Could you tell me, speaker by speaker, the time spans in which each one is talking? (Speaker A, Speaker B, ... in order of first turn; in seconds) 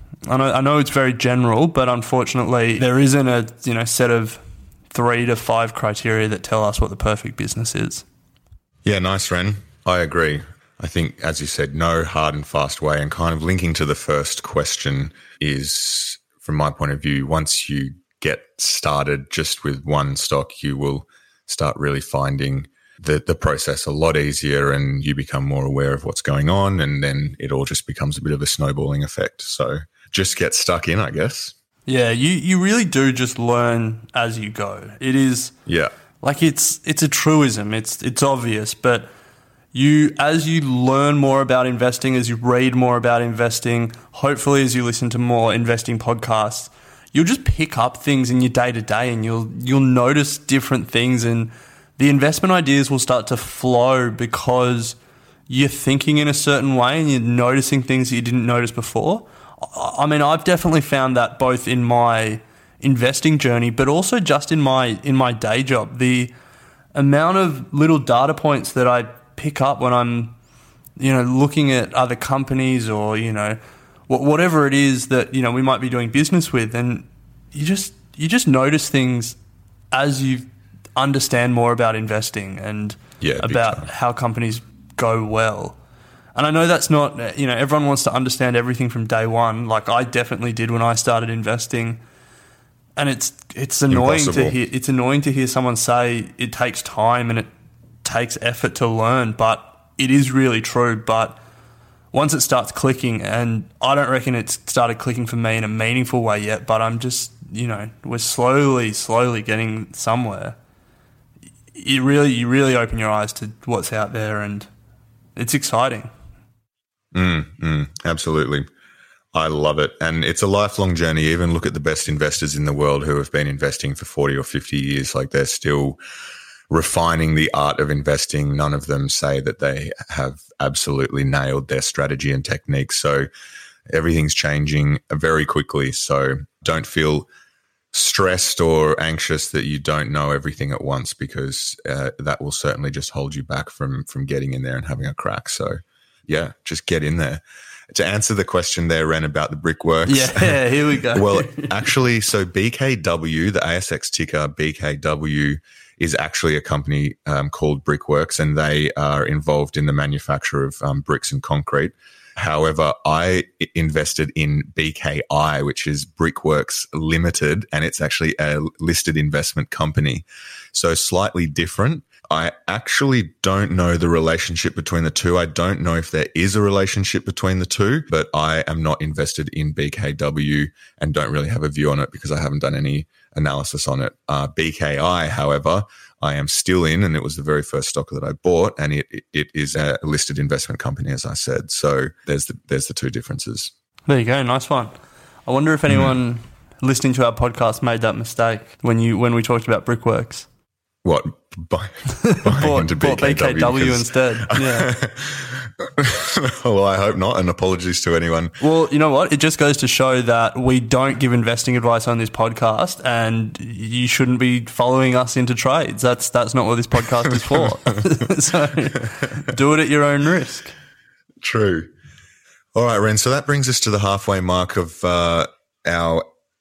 Speaker A: 0.2-8.0, 31.9-35.5, 36.2-39.1, 39.7-55.0, 55.5-66.3, 66.9-70.3, 71.0-79.3, 79.9-85.8, 86.3-92.0, 93.0-97.5, 98.0-101.4, 102.1-110.5, 111.7-114.7, 115.3-116.1, 150.1-151.7, 194.1-194.9, 195.5-200.5, 202.2-204.9, 208.6-220.7
Speaker B: 8.8-31.5, 35.6-35.9, 83.2-83.9, 93.9-94.5, 117.1-118.7, 119.3-126.0, 126.7-133.3, 133.9-137.3, 137.9-193.7, 201.0-208.6, 221.4-221.9, 222.7-226.3